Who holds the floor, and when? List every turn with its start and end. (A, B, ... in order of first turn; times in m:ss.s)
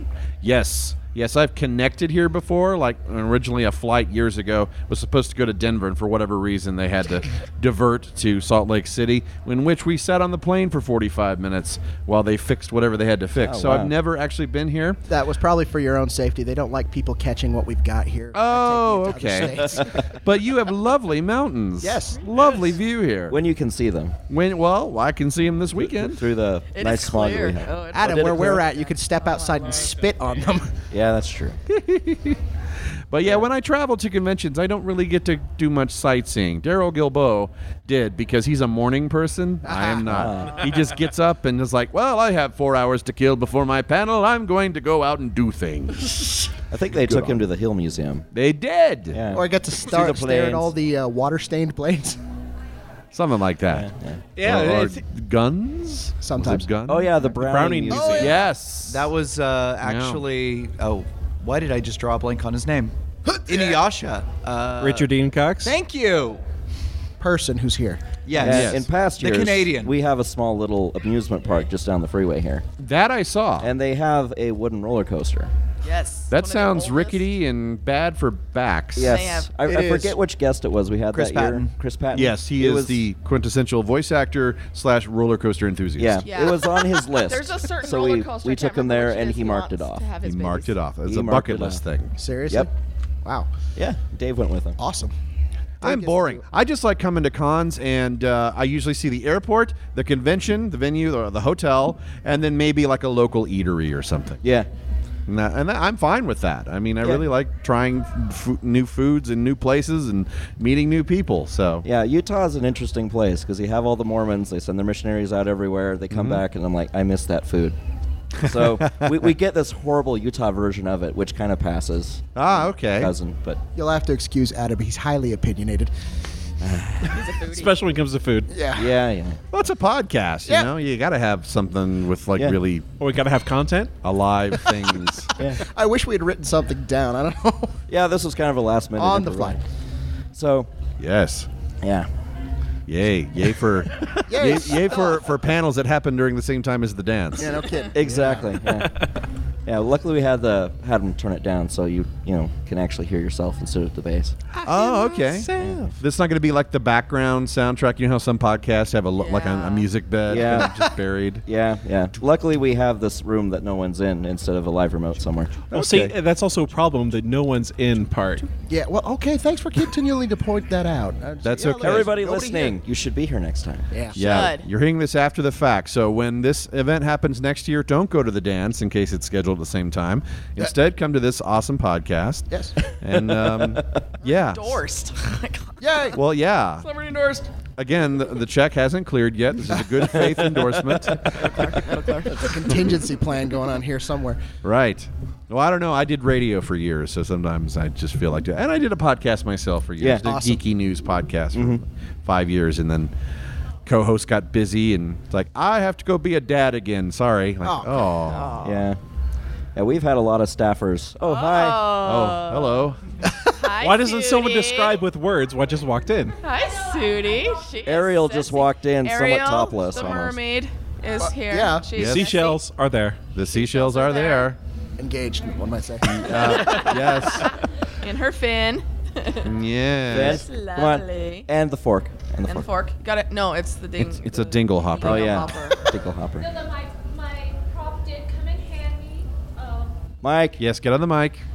0:00.4-0:15.0 A
0:13.4-0:13.9 B
0:15.1-0:20.0 C
0:18.3-0:23.4 A
0:21.8-0:22.2 C
0:23.3-0:24.2 B
0:24.3-0:26.2 A
0:25.8-0:27.7 B
0:26.7-0:30.0 D
0:27.9-0:30.8 C
0:30.9-0:31.6 B
0:31.7-0:32.4 A
0:33.1-0:46.1 A
0:39.6-0:40.1 C
0:40.1-0:40.6 B
0:46.7-0:48.3 B
0:46.8-0:47.4 A
0:48.3-0:49.2 A
0:49.1-0:50.7 B
0:49.3-0:52.2 C
0:53.1-0:53.9 A
0:53.7-0:54.2 B
0:54.4-0:55.0 E
0:54.4-0:57.2 A
0:56.2-0:56.7 C
0:56.9-0:58.4 B
0:57.2-0:58.3 E
0:57.9-0:58.4 C
0:58.1-0:59.1 A
0:58.8-1:05.1 F
0:59.8-1:00.2 A
1:04.8-1:05.8 E
1:05.6-1:06.4 F
1:07.2-1:08.1 C
1:08.3-1:09.9 F
1:08.4-1:12.6 B
1:08.4-1:08.8 A
1:12.8-1:13.7 A
1:13.6-1:15.5 B
1:15.8-1:17.2 D
1:16.3-1:19.2 A
1:19.0-1:23.0 B
1:19.0-1:19.5 D
1:19.7-1:20.0 F
1:19.8-1:20.2 C
1:21.1-1:21.7 F
1:22.1-1:26.5 A
1:26.0-1:30.1 B
1:26.3-1:30.8 D
1:30.2-1:32.1 A
1:31.1-1:31.8 B
1:32.2-1:32.7 C
1:33.8-1:34.8 B
1:34.8-1:35.1 C
1:35.8-1:44.4 A
1:35.8-1:36.4 C
1:45.3-1:51.8 A
1:51.8-1:57.8 B
1:56.1-1:56.4 A
1:58.4-2:03.6 B
1:58.4-1:59.2 A
2:02.4-2:03.1 A
2:03.8-2:05.9 C
2:06.6-2:07.1 B
2:07.1-2:07.8 D
2:07.4-2:08.5 E
2:08.5-2:09.0 C
2:08.7-2:09.4 B
2:09.5-2:12.9 A
2:13.0-2:13.9 E
2:14.0-2:15.3 A
2:15.4-2:15.6 B
2:15.6-2:17.8 C
2:17.9-2:19.6 B
2:19.0-2:19.6 C
2:20.4-2:20.7 B
2:21.0-2:21.5 A
2:21.8-2:22.1 B
2:22.9-2:27.6 A
2:24.3-2:25.3 C
2:27.4-2:28.5 C
2:27.9-2:28.9 B
2:29.7-2:34.5 B
2:34.6-2:41.4 A
2:35.5-2:35.9 B
2:39.2-2:39.9 D
2:40.3-2:40.8 B
2:41.5-2:45.7 B
2:45.7-2:48.5 E
2:45.7-2:46.1 A
2:48.7-2:52.7 C
2:51.4-2:52.5 A
2:51.8-2:53.9 B
2:53.9-2:54.2 C
2:54.2-3:02.5 A
2:54.2-2:54.6 D
3:03.0-3:04.8 A
3:04.2-3:06.1 D
3:05.8-3:06.2 C
3:06.2-3:06.9 A
3:06.8-3:07.5 D
3:07.8-3:11.7 A
3:10.0-3:11.1 B
3:11.4-3:12.9 D
3:12.3-3:14.4 C
3:14.6-3:23.1 A
3:20.0-3:20.3 B
3:20.2-3:20.6 C
3:21.5-3:21.8 B
3:23.9-3:28.6 A
3:27.6-3:28.0 C
3:28.3-3:28.9 D
3:28.6-3:29.0 B
3:29.8-3:31.9 B
3:31.2-3:32.9 D
3:31.9-3:33.0 A
3:33.6-3:35.0 D
3:33.7-3:36.4 E
3:36.4-3:42.6 D
3:37.8-3:40.4 B
3:41.2-3:41.9 C
3:42.0-3:42.4 A
3:42.0-3:43.2 E
3:43.4-3:44.6 A
3:43.5-3:44.5 D
3:45.0-3:46.7 C
3:46.1-3:47.5 A
3:46.4-3:49.5 D
3:49.4-3:50.5 A
3:50.1-3:52.7 B
3:50.1-3:51.5 D
3:52.5-3:55.8 D
3:54.0-3:55.4 A
3:55.0-3:56.5 B
3:56.5-3:59.9 G
4:00.2-4:00.6 B
4:00.6-4:01.4 A